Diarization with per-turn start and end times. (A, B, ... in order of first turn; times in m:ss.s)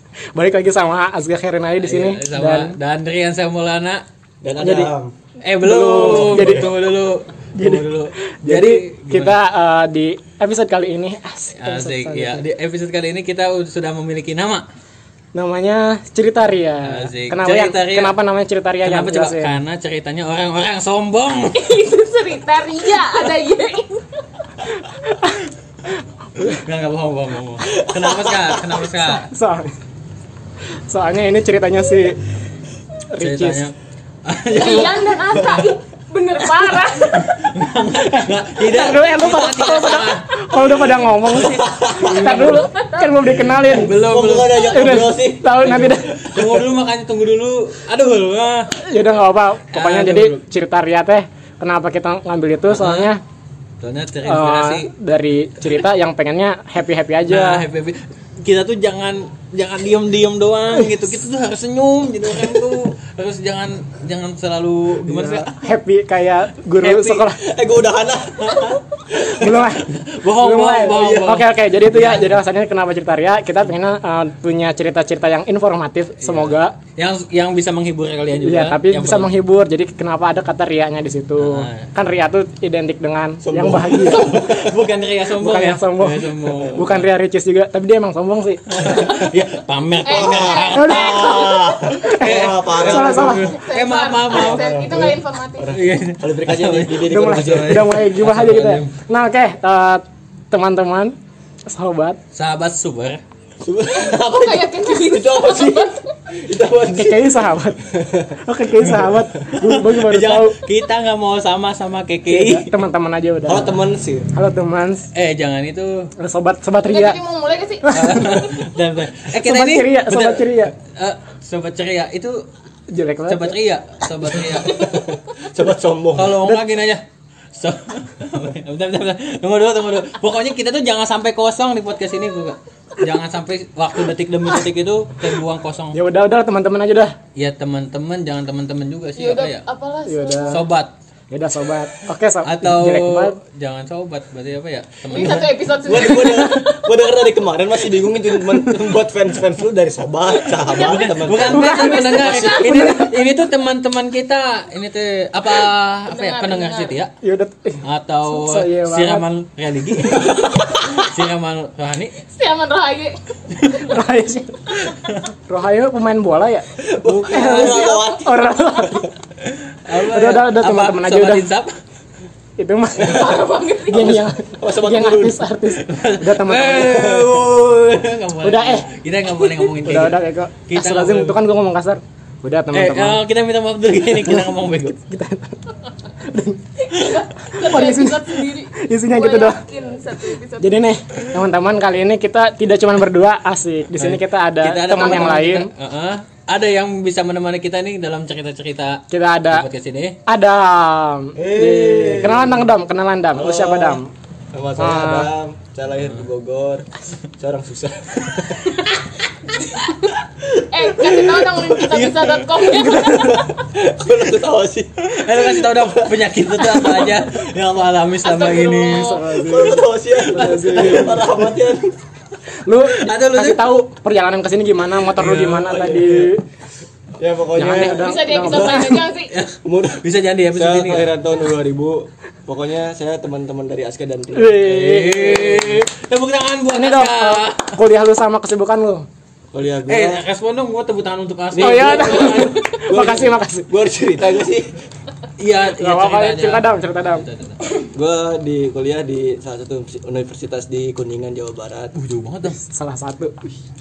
0:00.4-0:02.8 A
0:01.8-0:04.0 B
0:04.4-0:05.1 C
0:04.6-0:04.9 A
0:05.4-0:09.4 B
0:05.6-0:06.8 A
0:05.8-0:06.7 C
0:07.6-0:12.5 A
0:11.5-0:14.6 B
0:15.3-0:19.6 A
0:16.8-0:18.1 B
0:18.8-0:21.8 B
0:21.6-0:24.1 D
0:24.9-0:25.5 A
0:26.4-0:26.6 A
0:26.5-0:29.3 B
0:27.8-0:28.5 C
0:29.1-0:29.8 A
0:30.9-0:32.2 A
0:33.1-0:33.7 A
0:33.2-0:35.8 B
0:34.5-0:37.3 D
0:37.0-0:40.6 B
0:38.2-0:44.0 A
0:41.4-0:42.4 C
0:41.9-0:42.7 B
0:42.4-0:43.2 D
0:43.2-0:45.0 B
0:43.6-0:46.7 C
0:44.6-0:46.1 A
0:45.6-0:48.8 B
0:48.7-0:53.2 A
0:49.7-0:50.4 B
0:52.7-0:53.2 B
0:53.8-0:54.9 B
0:54.2-0:57.7 A
0:57.3-1:05.6 B
1:00.7-1:01.1 A
1:05.0-1:07.4 A
1:06.8-1:07.2 B
1:07.3-1:08.8 C
1:08.4-1:12.4 B
1:09.1-1:16.8 A
1:10.9-1:11.4 C
1:16.2-1:19.3 B
1:18.4-1:24.6 A
1:21.4-1:21.9 B
1:23.4-1:24.7 C
1:23.9-1:27.0 B
1:25.4-1:29.0 A
1:26.5-1:26.8 C
1:28.7-1:35.1 B
1:30.0-1:31.4 D
1:30.1-1:33.4 C
1:30.7-1:33.5 A
1:33.3-1:35.8 D
1:34.3-1:38.0 C
1:35.7-1:39.0 B
1:37.0-1:41.2 A
1:41.7-1:42.2 A
1:42.3-1:43.2 B
1:43.6-1:48.4 C
1:43.9-1:46.1 D
1:46.9-1:50.6 A
1:49.6-1:52.7 B
1:52.3-1:53.7 A
1:53.5-1:54.3 C
1:54.3-1:55.1 A
1:55.1-1:56.1 B
1:56.2-1:57.2 A
1:56.8-1:58.2 D
1:57.8-1:58.6 A
1:57.9-2:02.4 B
1:59.3-2:00.7 A
2:02.9-2:03.6 A
2:03.3-2:05.1 B
2:04.6-2:06.4 C
2:06.2-2:07.0 B
2:07.6-2:16.0 B
2:15.9-2:17.2 A
2:17.4-2:19.6 B
2:19.2-2:20.6 D
2:20.1-2:20.6 A
2:20.5-2:20.9 B
2:21.3-2:23.4 A
2:22.4-2:25.6 B
2:25.1-2:26.9 D
2:25.8-2:31.8 C
2:30.6-2:37.1 B
2:30.7-2:33.0 D
2:31.4-2:33.1 A
2:36.1-2:37.0 D
2:37.2-2:39.3 A
2:37.8-2:42.2 B
2:42.3-2:43.8 D
2:43.6-2:43.9 B
2:43.8-2:44.8 A
2:44.9-2:45.3 B
2:45.5-2:49.1 A
2:46.8-2:48.3 C
2:47.3-2:48.0 D
2:49.8-2:51.7 B
2:50.0-2:51.5 A
2:52.6-2:57.4 A
2:53.0-2:54.2 D
2:53.1-2:53.4 C
2:54.0-2:55.4 C
2:55.7-3:01.4 B
2:58.4-2:58.9 A
2:59.8-3:03.2 A
3:02.7-3:05.0 B
3:04.2-3:05.6 A
3:06.2-3:09.6 A
3:06.8-3:10.8 D
3:10.6-3:15.7 A
3:14.0-3:20.2 B
3:15.0-3:15.4 D
3:19.1-3:19.7 A
3:20.3-3:24.1 A
3:21.4-3:22.6 C
3:23.3-3:24.0 C
3:24.5-3:26.9 C
3:24.8-3:25.3 A
3:27.4-3:29.0 C
3:29.6-3:30.1 D
3:30.4-3:32.2 C
3:30.7-3:33.5 D
3:32.0-3:32.4 B
3:32.8-3:36.1 C
3:35.0-3:39.3 B
3:36.7-3:37.2 C
3:38.2-3:39.2 D
3:38.9-3:41.3 A
3:39.4-3:42.0 C
3:40.2-3:41.5 B
3:42.6-3:46.4 A
3:42.9-3:43.8 B
3:45.2-3:46.3 C
3:45.2-3:46.1 B
3:47.2-3:48.8 C
3:47.6-3:49.1 A
3:47.9-3:49.3 D
3:49.3-3:51.1 B
3:49.6-3:54.7 C
3:54.3-3:55.8 A
3:54.6-3:57.8 B
3:56.7-3:59.1 A
3:59.5-4:00.2 C
3:59.9-4:02.8 B
4:01.5-4:04.7 C
4:01.6-4:03.7 A
4:05.4-4:07.6 B
4:05.7-4:07.2 A
4:07.8-4:11.9 C
4:11.9-4:12.6 B
4:12.5-4:13.5 A